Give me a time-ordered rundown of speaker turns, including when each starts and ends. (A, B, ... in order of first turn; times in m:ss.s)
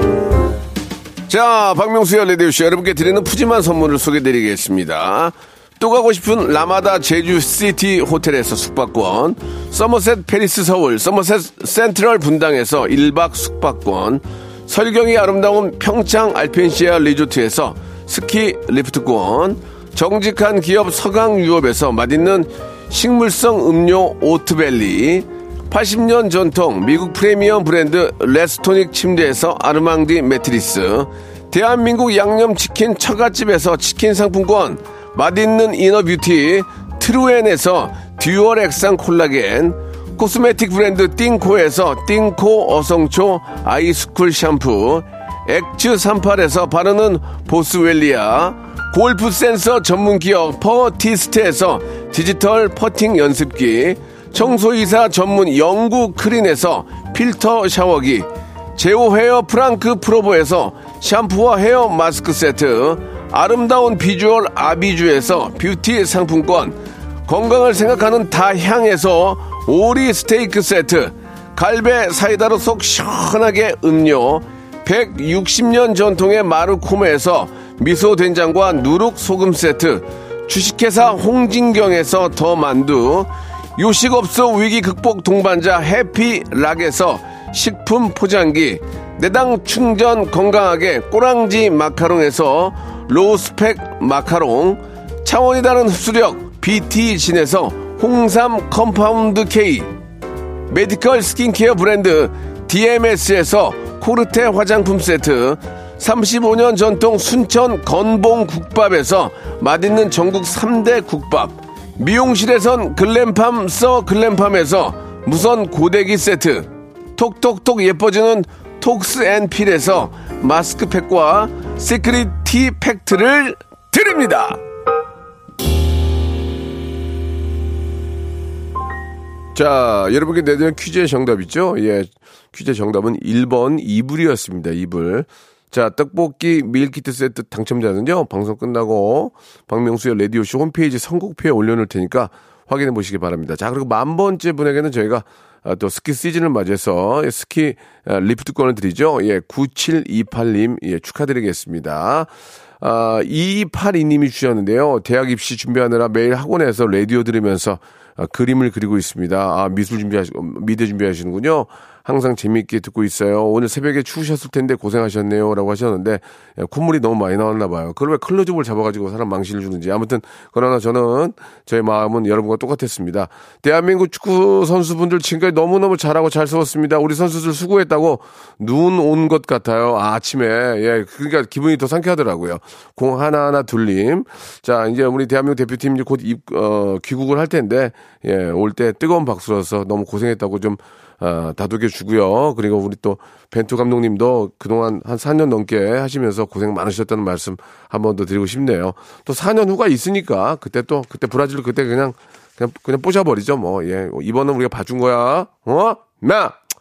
0:01.3-1:39.9 A
1:40.7-2:04.6 A
2:09.5-3:26.6 A